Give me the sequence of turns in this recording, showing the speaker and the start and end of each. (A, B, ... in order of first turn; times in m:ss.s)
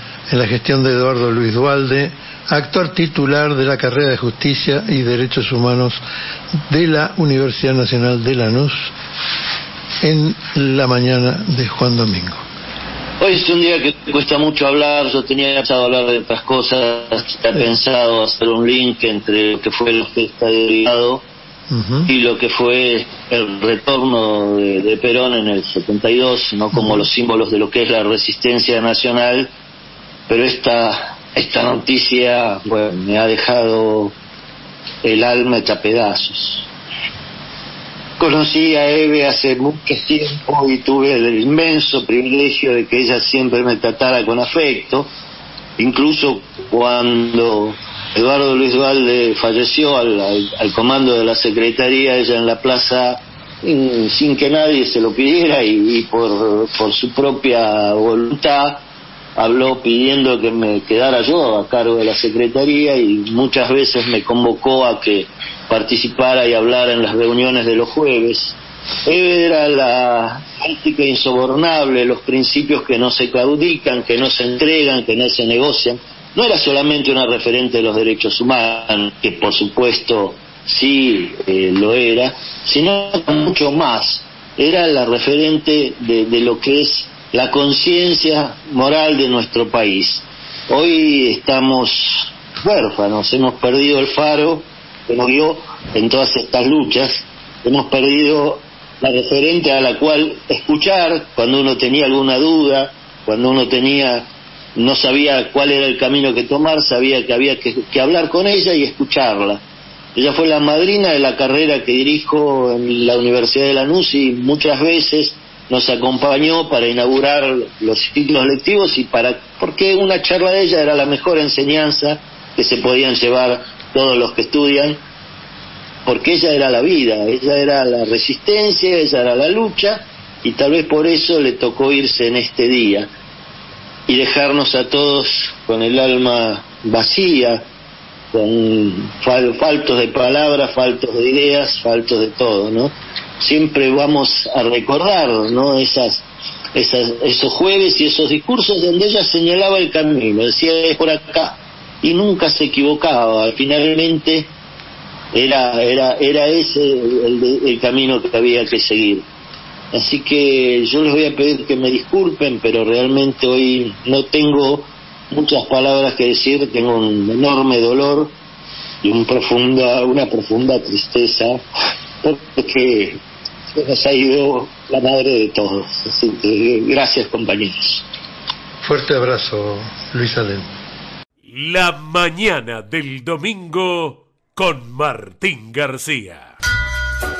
0:00.3-0:06.0 A
0:06.7-0:08.9 A
0:10.0-0:12.4 A
0:13.2-0:21.2 B
0:21.7-0:22.1 A
0:22.0-0:29.5 B
0:26.7-0:27.0 A
0:30.3-0:34.1 B
0:35.0-0:36.7 B
0:38.2-0:45.1 B
0:45.8-0:58.8 B
0:59.4-1:49.6 B
1:50.1-2:05.0 B
2:06.0-2:13.1 B
2:14.1-2:17.6 B
2:18.3-2:34.5 B
2:35.3-2:39.2 B
2:39.9-2:48.3 B
2:49.0-2:51.6 B
2:52.2-2:53.2 B
2:53.7-2:58.0 B
2:58.8-3:00.7 A
3:01.4-3:06.5 C